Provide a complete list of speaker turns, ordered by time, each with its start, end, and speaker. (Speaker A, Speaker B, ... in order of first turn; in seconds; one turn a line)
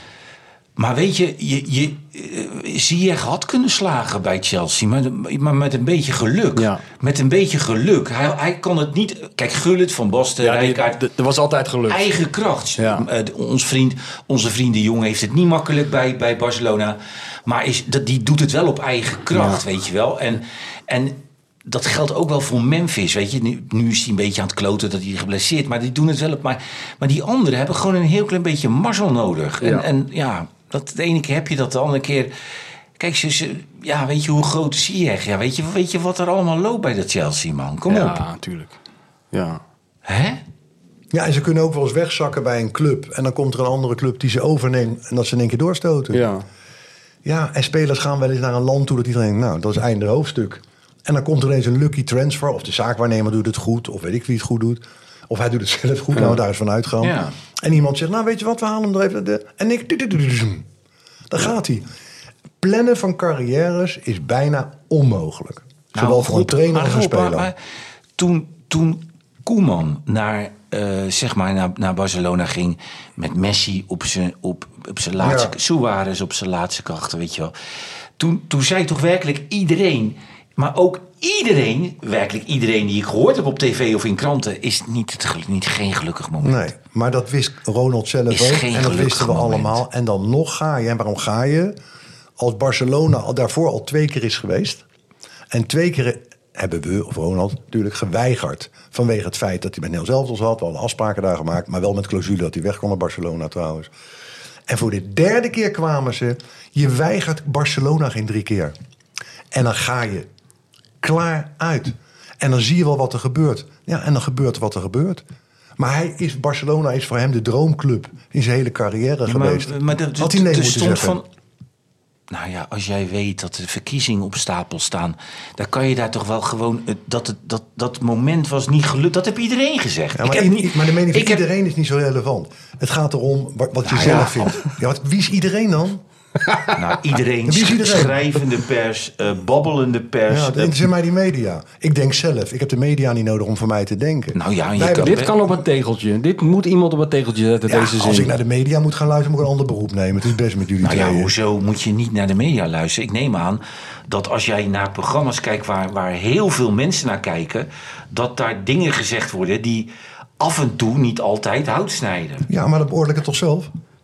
Speaker A: 0.8-11.0
Speaker B: 6.5-6.8
Speaker B: 10.4-12.2
Speaker A: 11.9-32.3
Speaker B: 12.8-13.1
Speaker B: 19.3-19.6
Speaker B: 29.6-29.9
Speaker A: 33.0-38.2
Speaker B: 37.9-38.7
Speaker B: 39.3-39.6
Speaker A: 40.0-40.4
Speaker C: 41.1-46.2
Speaker B: 46.1-46.4
Speaker C: 47.2-60.6
Speaker A: 57.0-57.3
Speaker C: 61.3-61.9
Speaker C: 62.6-67.5
Speaker A: 65.9-67.5
Speaker A: 68.2-77.5
Speaker C: 75.2-75.5
Speaker A: 78.2-86.7
Speaker C: 86.4-91.7
Speaker A: 88.3-89.8
Speaker C: 92.4-94.8
Speaker C: 95.5-103.9
Speaker C: 104.7-108.7
Speaker C: 109.5-110.3
Speaker C: 111.0-115.2
Speaker C: 115.8-121.2
Speaker A: 119.2-121.2
Speaker A: 122.3-131.4
Speaker C: 130.2-136.0
Speaker A: 133.8-134.6
Speaker B: 136.4-136.7
Speaker A: 136.7-140.8
Speaker C: 137.4-138.2
Speaker C: 140.3-145.3
Speaker A: 144.3-145.3
Speaker B: 144.9-148.3
Speaker C: 147.7-151.3
Speaker A: 150.8-159.9
Speaker A: 160.4-162.4
Speaker C: 162.5-163.7